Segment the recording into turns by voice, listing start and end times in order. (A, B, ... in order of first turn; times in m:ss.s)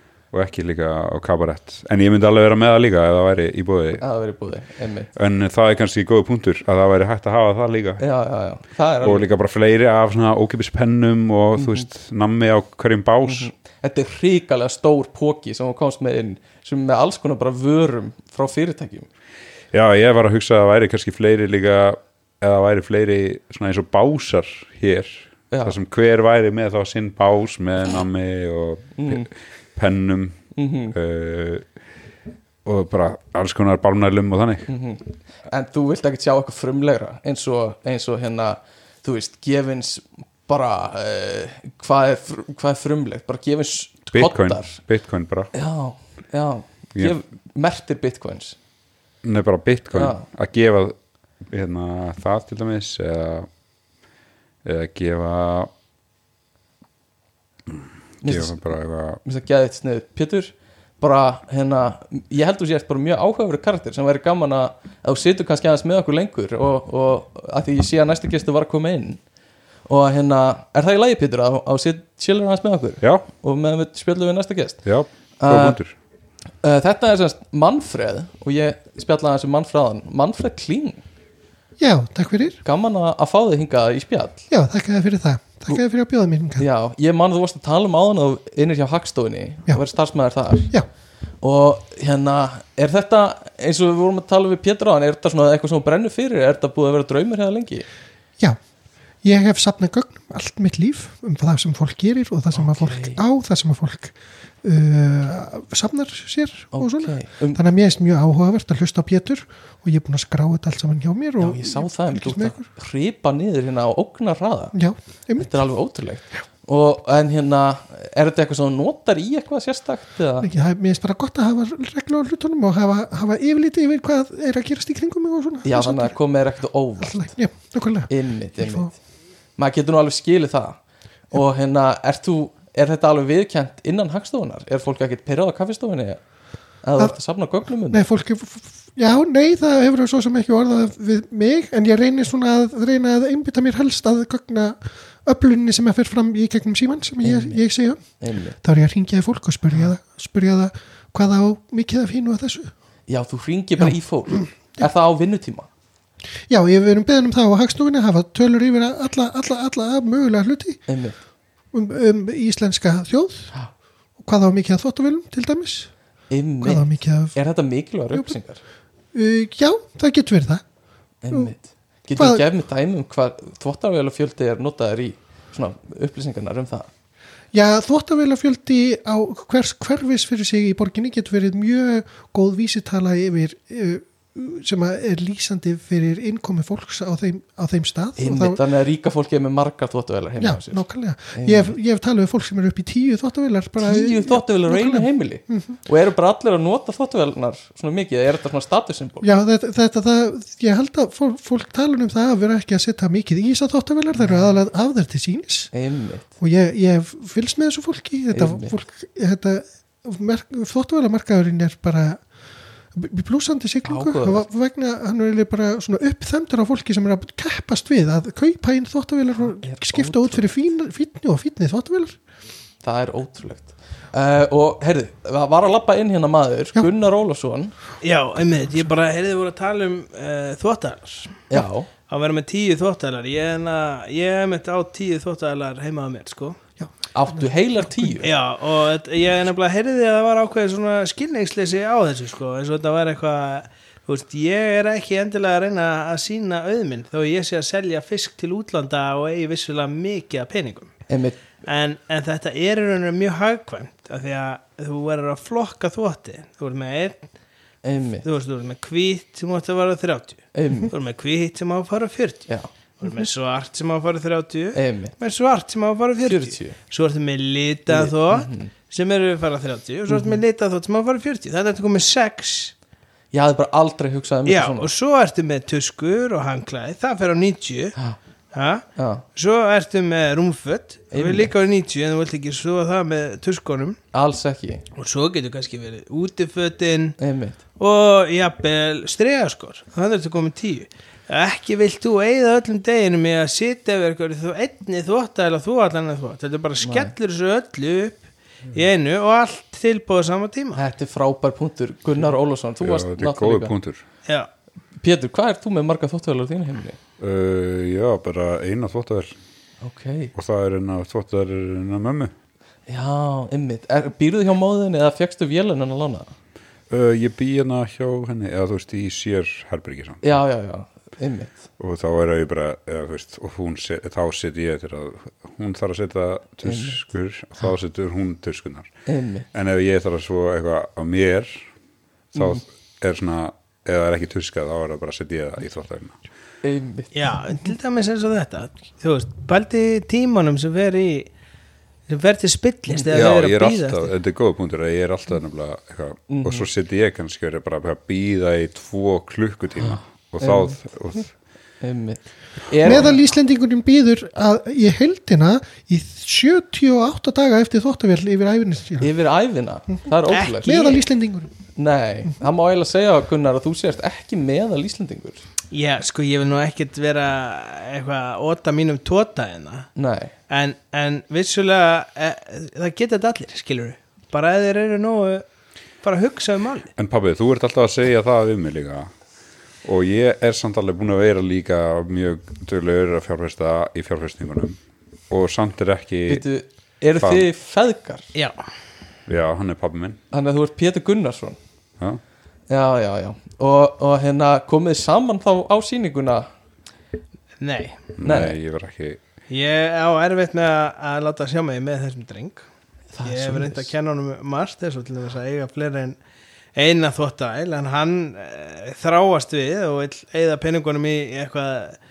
0:00.3-0:04.0 A
0:04.0-0:05.1 B
0:05.1-0:08.0 A
0:08.0-0:09.2 B
0:09.0-0:13.5 A
0:11.6-0:11.8 B
0:13.2-0:19.1 B
0:19.7-0:30.4 A
0:25.5-0:25.8 B
0:29.0-0:29.3 B
0:30.5-0:30.9 B
0:30.9-0:31.6 A
0:32.6-0:34.7 A
0:34.7-0:44.8 B
0:44.1-0:45.5 A
0:45.5-0:48.6 B
0:49.2-0:51.0 A
0:49.9-0:50.2 B
0:51.5-0:53.5 A
0:54.6-0:55.7 A
0:58.2-0:58.7 B
0:58.2-0:59.2 A
0:59.2-1:09.2 B
1:09.9-1:14.8 B
1:14.8-1:15.9 A
1:15.4-1:15.8 B
1:16.6-1:21.0 B
1:21.8-1:22.6 C
1:22.6-1:24.4 B
1:24.5-1:26.6 C
1:26.6-1:30.7 B
1:31.4-1:37.9 B
1:39.2-1:52.7 C
1:42.5-1:43.2 B
1:46.7-1:47.6 B
1:51.4-1:54.7 B
1:54.7-1:55.5 C
1:55.4-2:00.5 B
2:00.4-2:06.2 C
2:05.6-2:07.3 B
2:07.0-2:08.9 C
2:08.1-2:08.9 B
2:09.6-2:10.8 B
2:11.3-2:16.2 B
2:16.8-2:18.0 B
2:17.9-2:28.0 C
2:27.2-2:27.6 B
2:28.2-2:28.6 B
2:28.6-2:32.7 C
2:33.1-2:35.7 B
2:33.8-2:34.8 C
2:36.5-2:40.8 C
2:40.9-2:41.2 B
2:41.7-2:43.5 C
2:44.2-2:45.9 C
2:46.3-2:48.6 B
2:46.6-2:47.4 C
2:49.1-2:50.6 C
2:51.2-2:56.9 B
2:52.2-2:52.4 C
2:57.5-3:08.6 C
3:08.2-3:11.7 B
3:10.4-3:15.8 C
3:13.8-3:19.3 B
3:19.2-3:25.7 C
3:24.2-3:24.5 B
3:25.7-3:26.2 B
3:26.4-3:32.2 C
3:28.3-3:28.7 B
3:32.9-3:42.2 C
3:33.8-3:34.5 B
3:39.4-3:40.4 B
3:42.8-3:47.7 B
3:48.0-3:51.4 D
3:51.5-3:51.9 B
3:52.1-3:56.6 D
3:56.8-3:58.2 C
3:57.1-3:58.3 B
3:58.2-4:10.9 D
4:11.1-4:11.4 B
4:11.6-4:17.2 D
4:17.8-4:18.2 B
4:18.2-4:22.5 D
4:20.5-4:20.9 B
4:23.0-4:32.7 D
4:24.7-4:25.1 B
4:26.2-4:26.8 B
4:27.9-4:28.7 B
4:30.1-4:30.4 B
4:33.3-4:34.9 B
4:34.4-4:38.0 D
4:38.5-4:44.0 D
4:39.0-4:39.2 B
4:41.1-4:41.5 B
4:44.1-4:44.8 B
4:45.0-4:47.2 D
4:47.2-4:47.6 B
4:47.8-4:58.2 D
4:56.8-4:57.1 B
4:58.7-5:00.8 D
5:00.7-5:03.7 B
5:02.8-5:04.0 A
5:05.0-5:07.0 B
5:07.2-5:09.3 A
5:09.8-5:10.3 B
5:10.3-5:12.3 A
5:12.9-5:16.3 B
5:16.9-5:20.2 A
5:20.2-5:21.6 B
5:21.8-5:28.9 A
5:26.6-5:27.0 B
5:29.1-5:29.5 B
5:29.5-5:31.6 A
5:32.3-5:32.6 B
5:32.3-5:36.2 A
5:36.6-5:37.1 B
5:37.1-5:41.3 D
5:42.1-5:44.1 D
5:43.1-5:51.3 A
5:46.3-5:46.7 B
5:49.9-5:50.8 B
5:51.8-5:53.2 B
5:52.8-5:59.1 C
5:59.0-6:00.9 B
6:00.3-6:01.0 D
6:00.6-6:01.5 C
6:01.8-6:05.4 B
6:05.7-6:09.9 D
6:10.0-6:10.3 B
6:10.5-6:15.4 D
6:16.0-6:16.9 D
6:17.0-6:19.1 A
6:19.8-6:24.8 A
6:25.3-6:26.4 A
6:26.3-6:28.3 B
6:27.2-6:27.4 A
6:28.3-6:28.6 D
6:29.3-6:30.2 A
6:30.3-6:31.6 B
6:32.7-6:36.5 B
6:37.6-6:38.0 D
6:38.2-6:39.2 A
6:38.2-6:38.6 B
6:39.5-6:42.6 D
6:43.1-6:43.9 B
6:43.2-6:46.2 D
6:46.7-6:52.0 D